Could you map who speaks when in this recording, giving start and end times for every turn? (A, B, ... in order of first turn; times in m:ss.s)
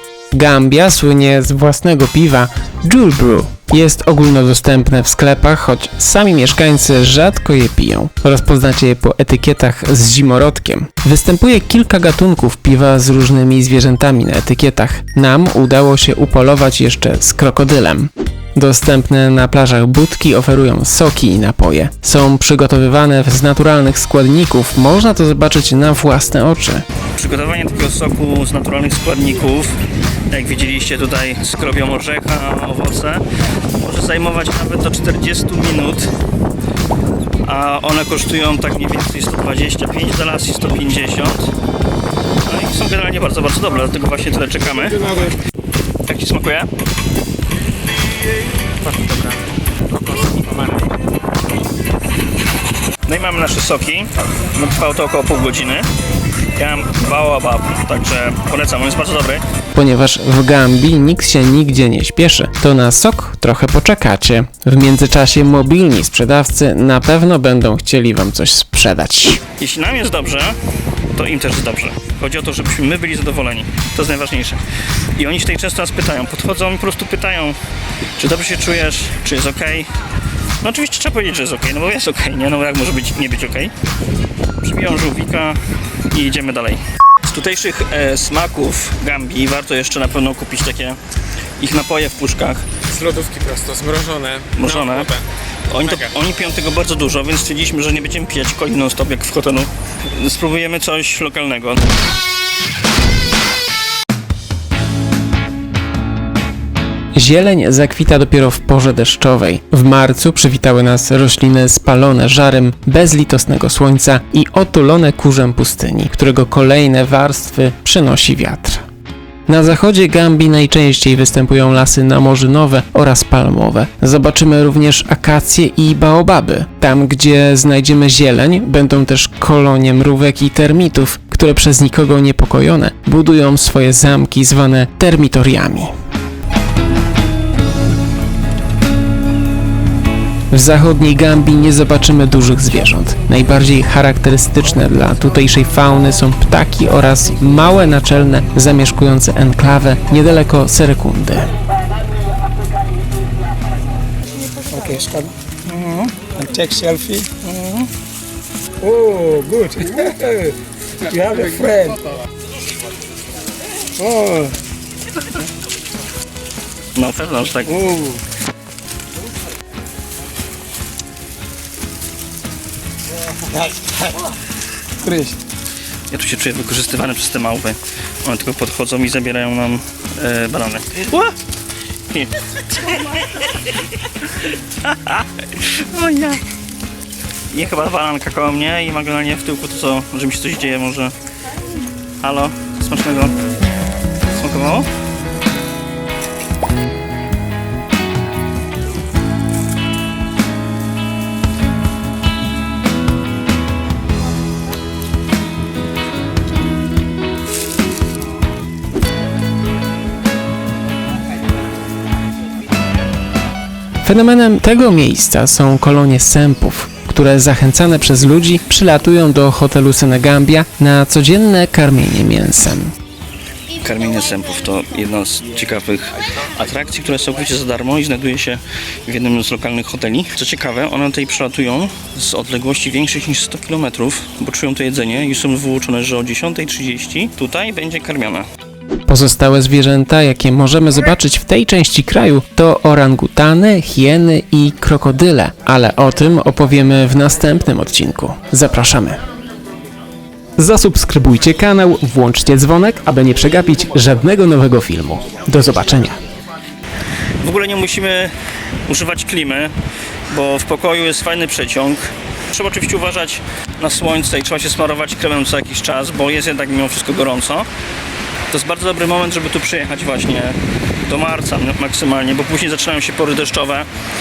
0:00.3-0:26.8 A
0:27.1-0:29.8 B
0:30.3-0:33.2 B
0:33.8-0:36.1 B
0:37.4-0:41.5 B
0:42.4-0:45.3 B
0:46.0-0:46.7 B
0:48.6-0:50.9 C
0:53.0-0:55.9 B
0:56.5-0:59.4 B
0:59.7-1:09.4 A
1:09.6-1:10.6 B
1:11.1-1:14.6 B
1:15.2-1:17.6 B
1:18.2-1:19.9 B
1:20.6-1:23.7 B
1:24.6-1:31.0 B
1:31.6-1:32.7 B
1:32.9-1:35.2 C
1:34.6-1:35.1 B
1:35.7-1:41.8 B
1:47.1-1:58.8 A
1:59.5-2:15.9 A
2:20.5-2:31.5 A
2:35.0-2:35.3 D
2:35.6-2:36.5 B
2:36.5-2:37.3 D
2:37.4-2:37.9 B
2:38.8-2:40.5 D
2:41.1-2:42.0 D
2:44.0-2:44.5 D
2:46.9-2:48.1 B
2:55.0-2:55.3 D
2:56.1-3:01.4 B
3:02.1-3:03.8 B
3:04.8-3:06.4 B
3:07.5-3:11.1 B
3:12.2-3:13.3 B
3:14.3-3:14.9 B
3:34.0-3:42.9 A
3:43.8-3:58.4 B
3:59.1-4:09.2 A
4:10.6-4:16.2 A
4:17.4-4:18.3 B
4:18.8-4:19.7 B
4:20.3-4:27.7 B
4:28.5-4:33.9 B